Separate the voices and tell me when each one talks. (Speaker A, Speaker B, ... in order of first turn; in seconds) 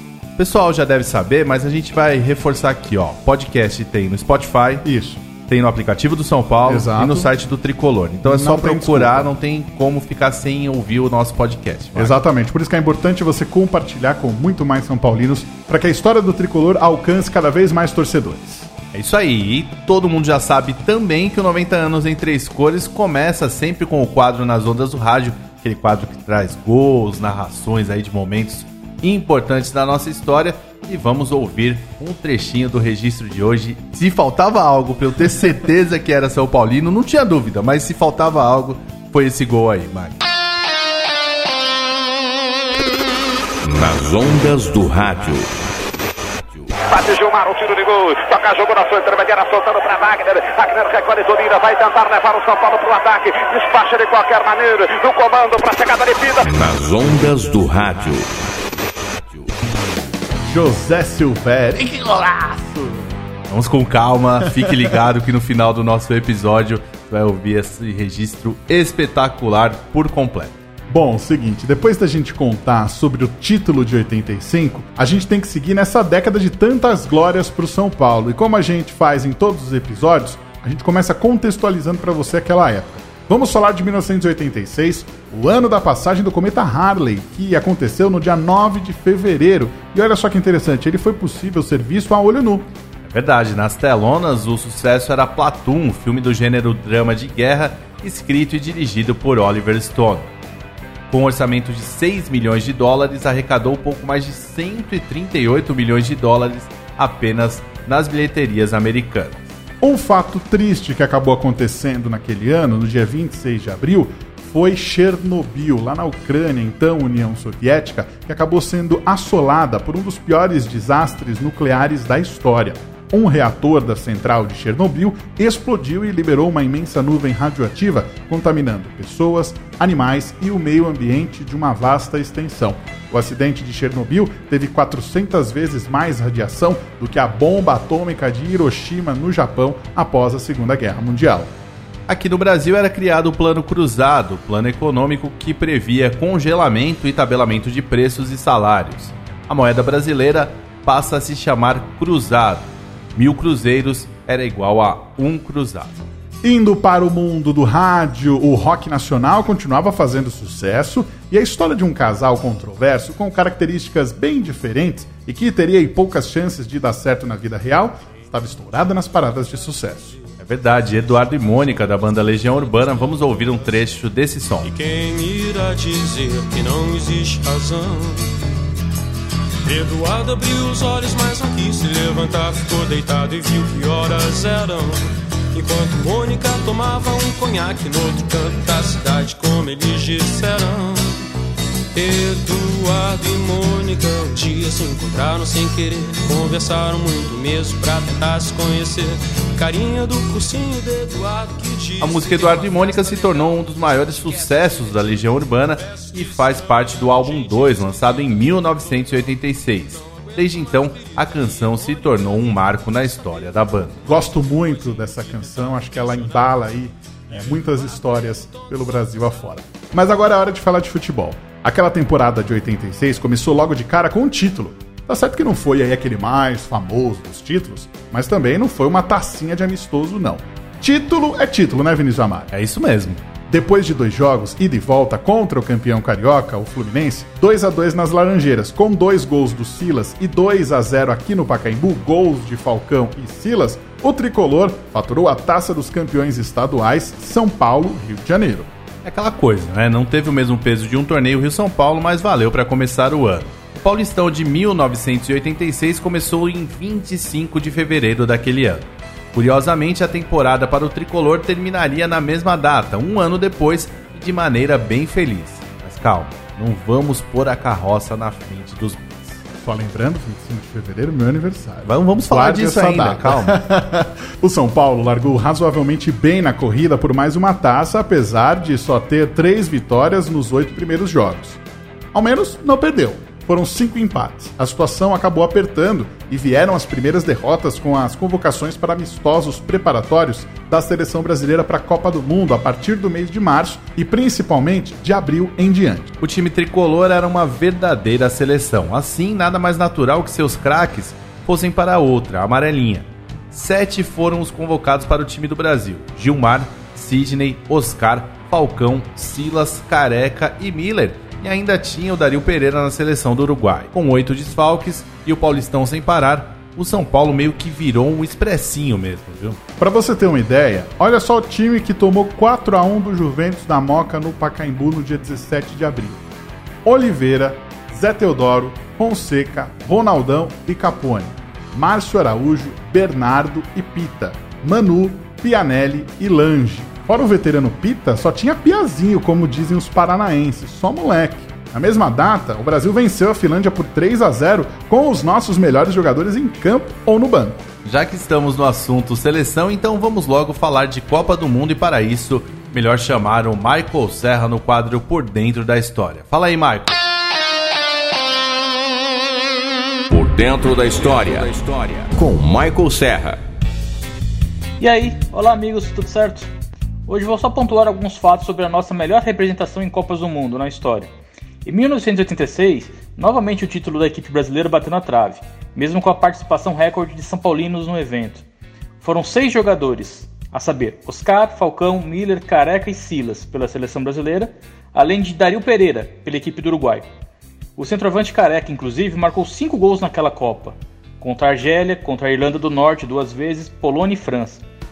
Speaker A: 0.4-4.8, 5.4-12.2, 18.9-40.2, 63.5-70.6, 93.0-100.3, 101.1-109.4, 142.1-156.0, 170.4-174.7, 202.0-214.1, 232.5-233.2, 249.0-269.4, 271.8-273.6, 296.2-319.6, 347.8-357.0
Speaker B: 4.8-5.2, 6.7-7.3, 8.2-9.3, 11.9-18.7, 60.5-63.0, 70.9-92.7, 109.8-141.5, 156.4-170.2, 214.1-232.5, 233.5-248.7, 269.5-281.6, 282.1-296.1, 319.8-326.2, 326.8-347.6
Speaker C: 43.6-46.7, 56.4-59.5, 360.1-363.4
Speaker D: 46.9-56.5
Speaker E: 174.6-178.3, 179.6-185.0, 185.5-191.2, 191.9-208.8, 210.9-212.2, 214.6-215.9
Speaker F: 364.8-366.5, 367.1-371.1, 371.6-378.4, 379.0-387.1, 387.8-394.6